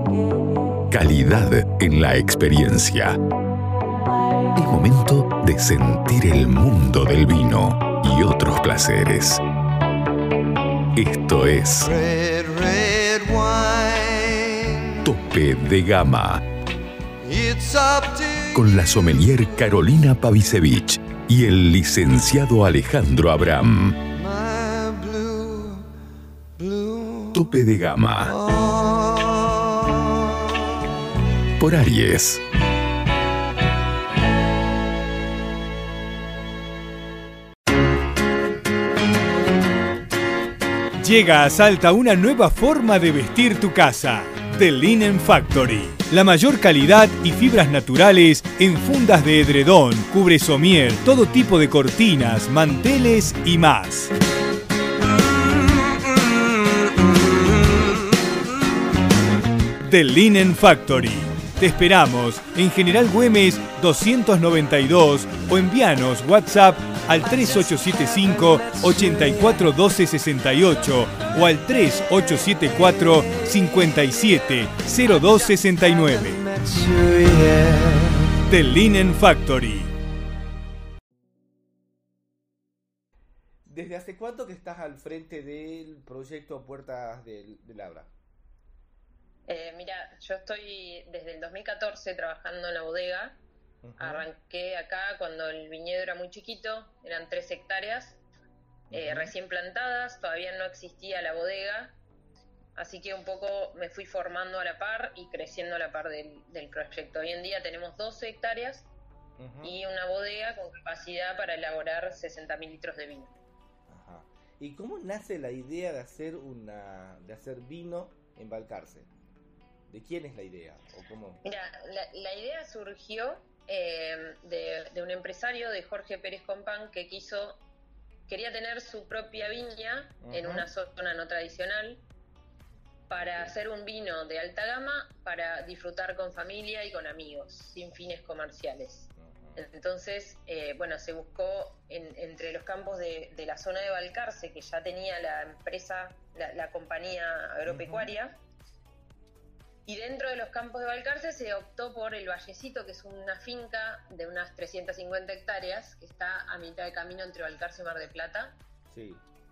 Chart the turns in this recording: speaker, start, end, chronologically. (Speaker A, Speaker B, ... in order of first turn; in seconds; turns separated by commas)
Speaker A: 0.9-3.2, Speaker A: 4.5-9.4, Speaker A: 10.9-12.1, Speaker B: 12.1-14.8, Speaker A: 15.0-16.5, Speaker B: 17.2-18.4, Speaker A: 18.5-24.2, Speaker B: 24.3-25.8, Speaker B: 26.6-27.2, Speaker A: 27.3-28.5, Speaker B: 28.5-29.3, Speaker A: 31.6-32.4, Speaker C: 41.0-54.1, Speaker C: 59.8-76.7, Speaker C: 78.4-79.9, Speaker D: 83.7-88.1, Speaker E: 89.5-93.4, Speaker D: 93.8-94.3, Speaker E: 94.0-98.2, Speaker D: 98.9-99.3, Speaker E: 98.9-102.0, Speaker E: 102.8-108.9, Speaker D: 109.4-109.8, Speaker E: 109.6-113.4, Speaker D: 113.9-119.1, Speaker D: 119.9-121.4, Speaker E: 121.4-127.6, Speaker E: 128.3-132.0, Speaker D: 130.2-130.7, Speaker E: 133.1-148.3, Speaker D: 133.1-133.6, Speaker D: 139.2-139.6, Speaker D: 147.7-148.1, Speaker E: 149.9-158.6, Speaker D: 158.9-159.2